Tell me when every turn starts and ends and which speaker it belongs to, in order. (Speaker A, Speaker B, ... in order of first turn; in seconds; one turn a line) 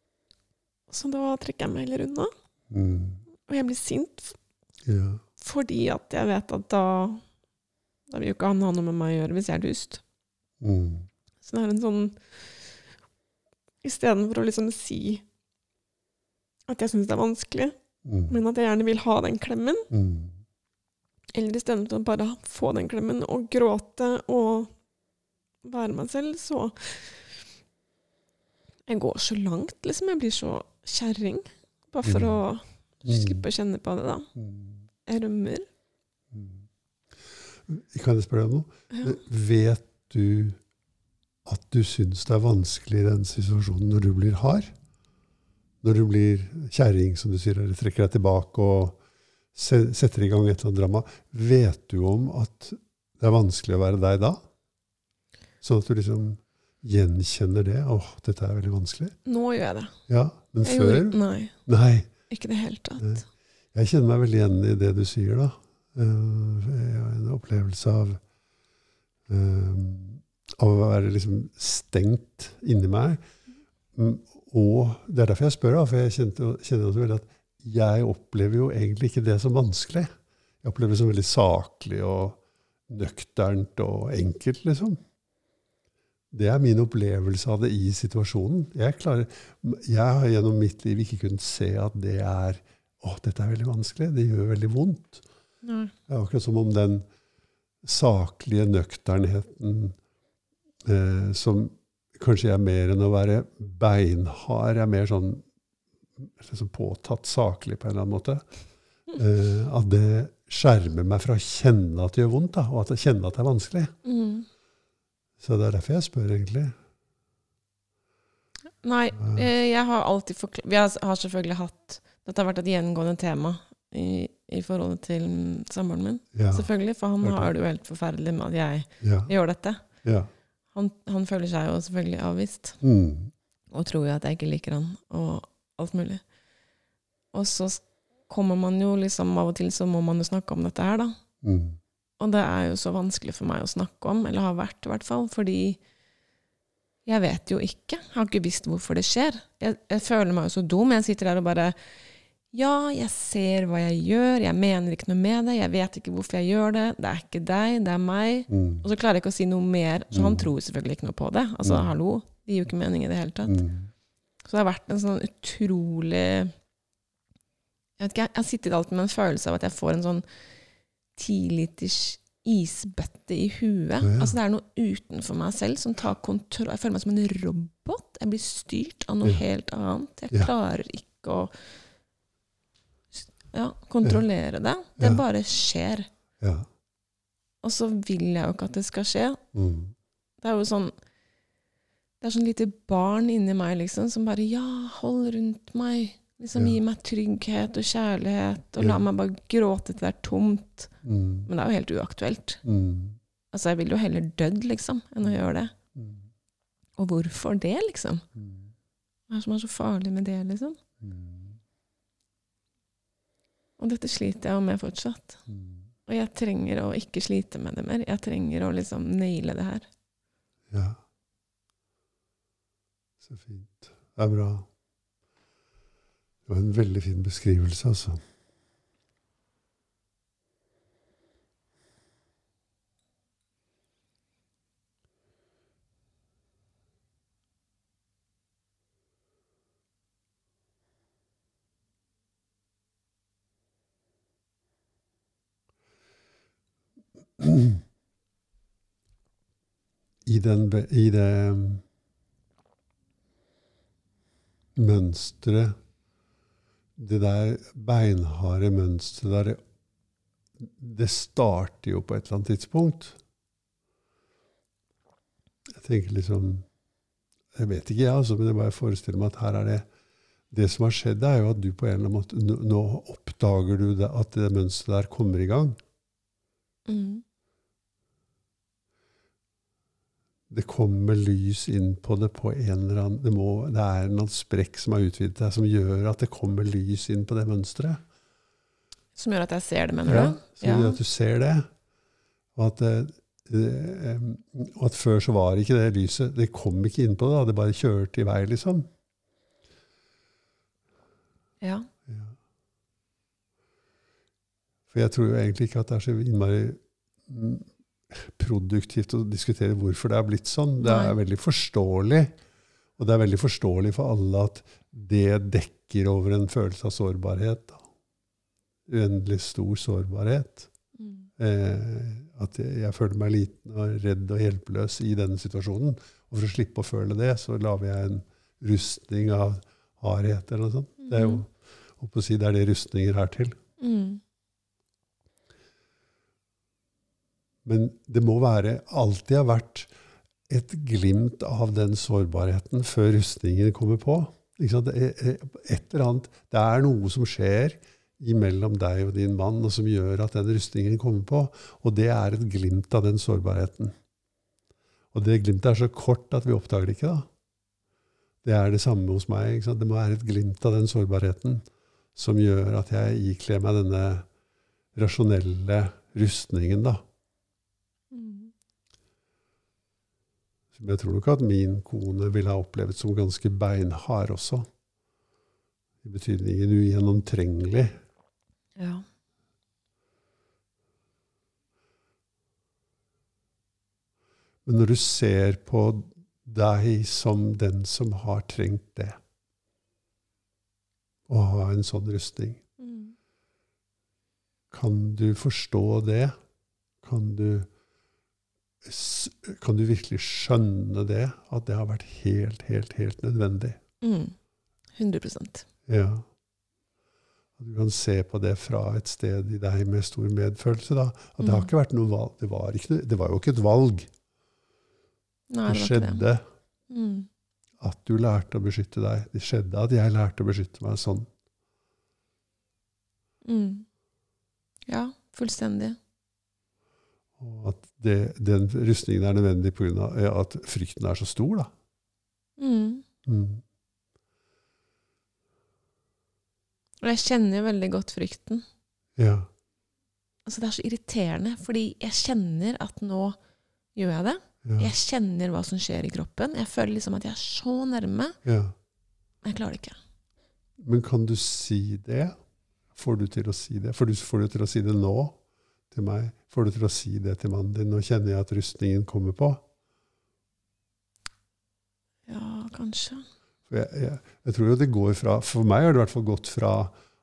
Speaker A: 0.9-2.3
Speaker B: 2.7-3.2
Speaker A: 3.4-4.4
Speaker B: 4.8-5.2
Speaker A: 5.4-7.2
Speaker A: 8.1-10.0
Speaker B: 10.6-11.1
Speaker A: 11.4-12.2
Speaker A: 13.8-15.2
Speaker A: 16.7-17.8
Speaker B: 18.0-18.3
Speaker A: 18.3-19.9
Speaker B: 19.9-20.3
Speaker A: 21.3-24.7
Speaker A: 25.6-27.3
Speaker A: 28.9-34.3
Speaker B: 32.0-32.3
Speaker B: 33.0-33.4
Speaker B: 34.4-34.8
Speaker A: 35.0-35.7
Speaker B: 36.3-36.6
Speaker B: 37.7-40.6
Speaker B: 41.4-44.7
Speaker B: 45.8-49.0
Speaker B: 49.5-54.4
Speaker B: 55.6-59.1
Speaker A: 59.2-60.0
Speaker B: 60.1-62.1
Speaker A: 60.6-61.5
Speaker A: 62.3-63.2
Speaker B: 63.7-68.2
Speaker B: 69.3-73.2
Speaker B: 73.9-80.1
Speaker B: 80.6-85.0
Speaker B: 86.3-95.2
Speaker A: 95.6-95.9
Speaker B: 96.1-97.0
Speaker B: 97.8-100.0
Speaker B: 100.8-105.4
Speaker B: 106.2-108.4
Speaker B: 109.1-113.9
Speaker A: 114.0-114.5
Speaker B: 115.4-116.7
Speaker A: 118.8-129.8
Speaker B: 119.2-119.5
Speaker B: 126.3-126.7
Speaker B: 127.2-127.5
Speaker B: 129.0-129.3
Speaker B: 130.0-130.3
Speaker A: 130.7-132.8
Speaker B: 132.8-133.3
Speaker A: 133.7-136.2
Speaker A: 137.3-141.2
Speaker B: 141.4-141.8
Speaker A: 142.2-145.8
Speaker A: 147.1-151.8
Speaker A: 152.5-163.7
Speaker B: 158.5-158.8
Speaker B: 160.1-160.5
Speaker B: 161.6-161.9
Speaker B: 163.5-163.9
Speaker A: 164.4-166.5
Speaker A: 168.0-170.2
Speaker A: 171.1-181.5
Speaker B: 174.0-174.3
Speaker A: 183.4-186.1
Speaker B: 185.0-185.2
Speaker B: 186.4-186.7
Speaker A: 187.6-189.4
Speaker B: 189.5-189.9
Speaker A: 190.4-190.9
Speaker A: 192.2-200.9
Speaker B: 201.0-201.5
Speaker A: 201.5-202.6
Speaker B: 202.6-203.2
Speaker A: 203.5-205.7
Speaker B: 205.9-206.2
Speaker A: 207.0-208.2
Speaker B: 208.4-208.7
Speaker A: 209.3-210.8
Speaker B: 211.0-211.6
Speaker A: 213.8-215.4
Speaker B: 215.5-215.8
Speaker A: 216.1-219.9
Speaker B: 220.7-221.0
Speaker B: 223.2-224.7
Speaker B: 226.5-228.2
Speaker B: 247.4-247.8
Speaker B: 250.2-251.8
Speaker B: 254.7-255.8
Speaker B: 256.9-259.6
Speaker B: 260.6-263.2
Speaker B: 265.7-266.6
Speaker B: 267.5-269.9
Speaker B: 270.5-275.8
Speaker A: 276.9-277.2
Speaker B: 280.5-288.0
Speaker A: 289.1-291.0
Speaker B: 290.1-291.7
Speaker B: 292.5-298.9
Speaker A: 301.6-301.9
Speaker B: 302.1-302.3
Speaker B: 304.9-312.4
Speaker A: 310.8-311.1
Speaker B: 313.0-317.8
Speaker B: 318.9-320.7
Speaker A: 321.0-321.3
Speaker B: 321.4-333.6
Speaker A: 331.0-331.4
Speaker A: 333.8-334.2
Speaker B: 337.6-339.9
Speaker B: 340.5-353.9
Speaker B: 355.1-357.3
Speaker B: 358.4-364.2
Speaker B: 364.9-367.0
Speaker A: 368.1-368.5
Speaker B: 370.7-374.7
Speaker B: 376.0-377.9
Speaker A: 378.8-379.0
Speaker B: 384.6-389.2
Speaker B: 391.3-392.6
Speaker A: 392.8-393.1
Speaker B: 394.7-396.3
Speaker B: 397.0-397.7
Speaker B: 398.8-403.8
Speaker A: 404.0-404.3
Speaker A: 405.0-405.6
Speaker B: 405.9-406.2
Speaker B: 407.6-414.1
Speaker A: 411.4-411.7
Speaker A: 415.5-416.3
Speaker B: 415.7-416.4
Speaker A: 416.9-417.3
Speaker B: 417.8-421.3
Speaker A: 423.4-423.9
Speaker A: 424.9-426.0
Speaker B: 427.4-431.7
Speaker A: 432.6-433.0
Speaker B: 433.2-433.6
Speaker A: 437.0-438.6
Speaker B: 439.2-439.5
Speaker A: 440.4-443.4
Speaker A: 443.9-448.4
Speaker B: 444.6-444.9
Speaker B: 448.4-448.7
Speaker A: 449.4-450.0
Speaker B: 450.8-452.4
Speaker B: 452.9-455.4
Speaker B: 455.9-459.6
Speaker A: 462.3-463.2
Speaker B: 463.7-466.9